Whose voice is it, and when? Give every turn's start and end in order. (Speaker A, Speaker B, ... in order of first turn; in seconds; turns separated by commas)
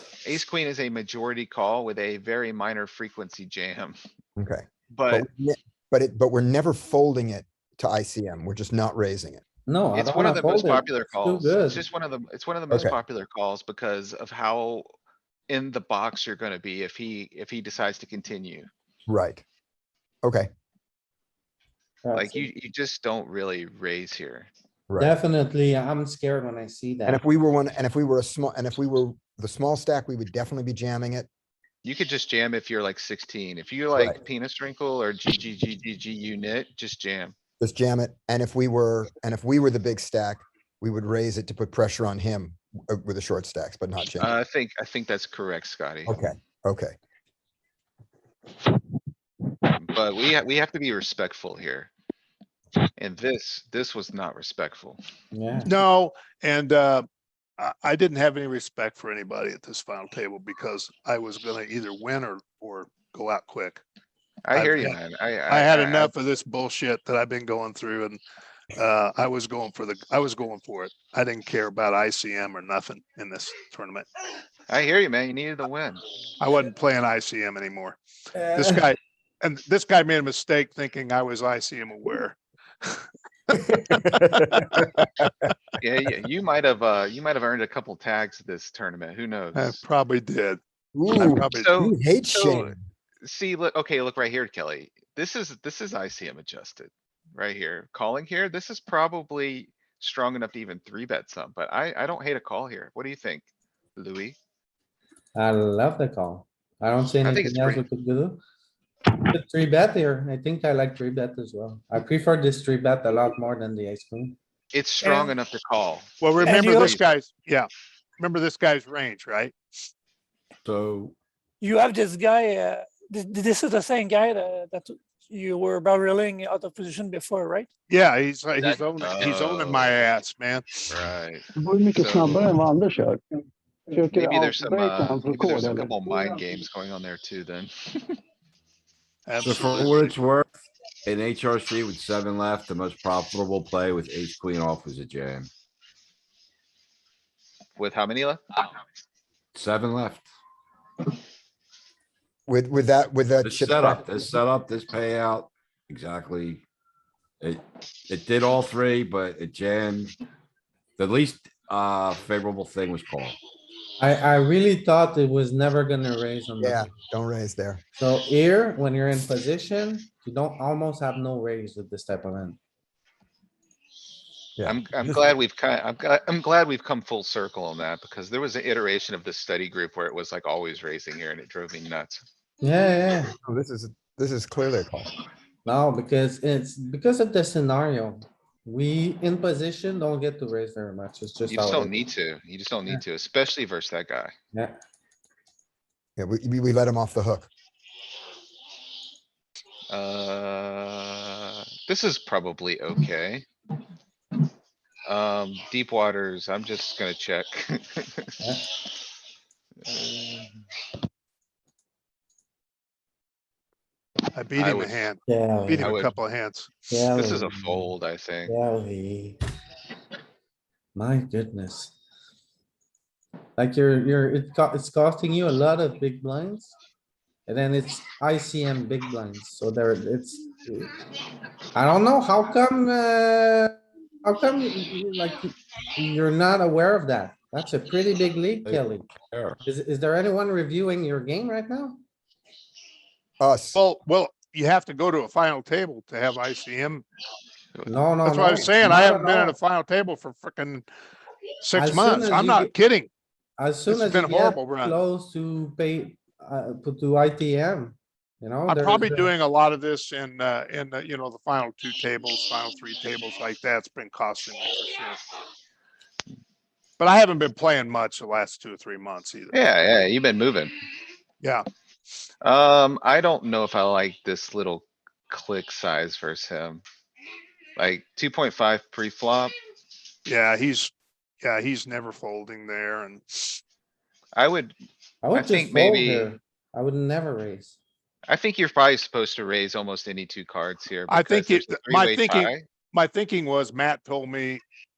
Speaker A: 0.2-4.0, Speaker B: 4.4-9.4, Speaker A: 4.9-5.3, Speaker C: 9.7-11.8, Speaker A: 9.9-14.9, Speaker B: 12.7-12.9, Speaker A: 15.5-18.7, Speaker B: 19.1-19.4, Speaker B: 20.2-20.5, Speaker C: 22.0-22.5, Speaker A: 22.1-24.5, Speaker C: 25.0-27.2, Speaker B: 27.1-31.3, Speaker A: 31.8-37.3, Speaker B: 37.6-44.3, Speaker A: 44.2-46.1, Speaker B: 46.0-46.9, Speaker A: 49.7-51.9, Speaker A: 53.0-55.0, Speaker C: 55.3-55.7, Speaker D: 55.6-57.0, Speaker D: 57.6-63.8, Speaker A: 64.4-66.1, Speaker D: 64.5-65.0, Speaker D: 65.5-68.2, Speaker D: 68.7-74.0, Speaker A: 74.7-76.0, Speaker D: 76.4-78.0, Speaker C: 78.3-78.8, Speaker D: 78.5-83.0, Speaker B: 83.9-85.1, Speaker A: 85.8-89.8, Speaker D: 89.5-90.6, Speaker B: 90.9-92.8, Speaker D: 91.1-91.7, Speaker A: 91.5-104.4, Speaker C: 105.3-108.4, Speaker A: 107.2-107.8, Speaker C: 109.3-114.4, Speaker A: 114.7-117.0, Speaker E: 115.0-115.3, Speaker D: 116.2-117.7, Speaker E: 116.4-117.0, Speaker D: 118.2-119.5, Speaker F: 120.6-121.2, Speaker E: 121.6-127.7, Speaker D: 127.9-130.9, Speaker A: 128.6-129.9, Speaker A: 130.9-132.5, Speaker G: 131.6-133.2, Speaker G: 133.9-136.0, Speaker A: 134.1-138.2, Speaker D: 139.2-140.1, Speaker F: 139.4-140.5, Speaker F: 141.0-145.5, Speaker A: 147.8-148.4, Speaker F: 149.5-150.3, Speaker B: 152.5-154.3, Speaker F: 153.4-156.7, Speaker F: 157.4-160.1, Speaker F: 161.0-163.4, Speaker C: 164.0-166.8, Speaker B: 166.6-167.8, Speaker C: 168.0-172.6, Speaker B: 174.6-175.2, Speaker A: 174.7-182.2, Speaker C: 182.6-183.3, Speaker B: 183.4-185.1, Speaker C: 185.6-191.9, Speaker A: 191.5-194.3, Speaker B: 196.2-197.5, Speaker A: 199.9-203.4, Speaker A: 205.1-208.3, Speaker A: 209.8-210.5, Speaker D: 214.3-216.7, Speaker A: 214.6-214.9, Speaker C: 215.3-215.9, Speaker A: 215.8-216.1, Speaker C: 216.9-217.9, Speaker A: 217.1-218.6, Speaker C: 218.4-219.4, Speaker C: 220.9-221.9, Speaker C: 223.6-226.7, Speaker C: 227.5-230.9, Speaker C: 231.7-239.1, Speaker F: 238.6-239.6, Speaker C: 239.6-242.0, Speaker B: 243.4-243.8, Speaker D: 243.7-247.0, Speaker C: 247.9-249.6, Speaker D: 248.2-250.9, Speaker D: 251.6-253.1, Speaker C: 251.7-252.7, Speaker C: 253.6-259.3, Speaker D: 253.9-254.9, Speaker D: 258.6-265.2, Speaker D: 267.0-269.5, Speaker A: 269.5-270.7, Speaker A: 272.4-276.8, Speaker A: 277.8-279.5, Speaker D: 280.2-283.6, Speaker A: 284.3-284.7, Speaker C: 285.2-287.8, Speaker A: 285.3-286.3, Speaker A: 288.3-292.6, Speaker D: 291.1-294.6